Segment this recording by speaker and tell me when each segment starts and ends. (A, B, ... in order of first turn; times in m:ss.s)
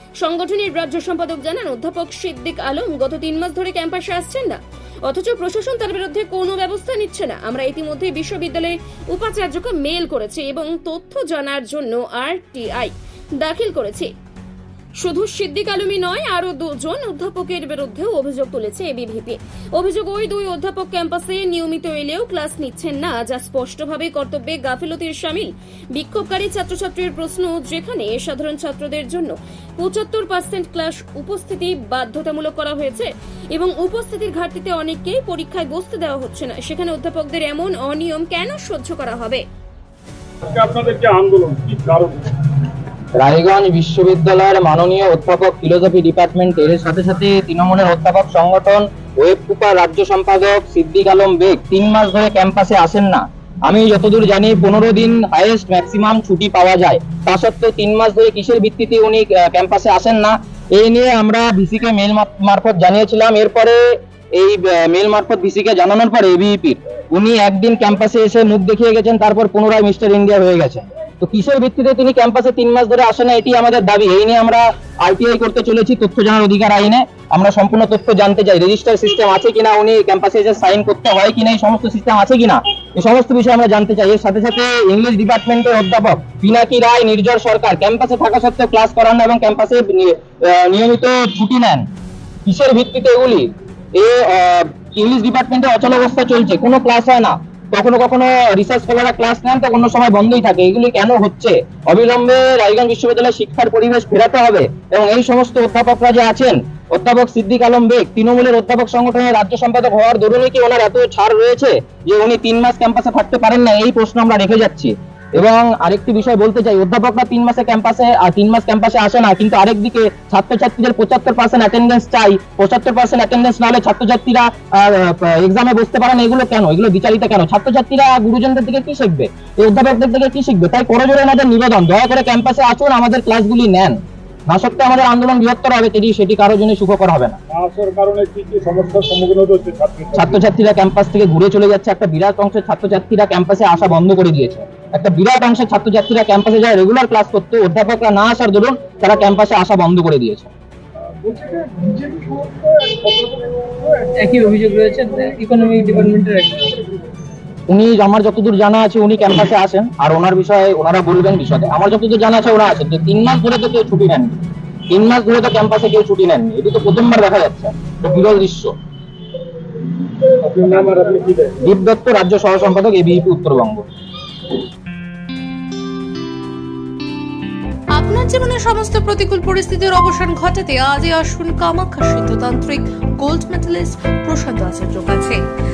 0:00.2-0:14.1 A
0:15.0-0:39.4 A
0:40.4-0:42.3 B
0:43.2-1:03.8 C
1:04.4-1:31.8 C
1:32.5-2:14.0 C
2:14.5-2:17.4 C
2:17.5-2:20.4 B
2:20.2-2:30.5 C
2:31.3-2:33.3 D
2:33.9-2:36.7 D
2:37.7-2:44.4 C
2:44.9-2:48.7 C
2:50.4-2:51.6 B
2:51.6-2:53.8 C
2:57.9-3:05.4 E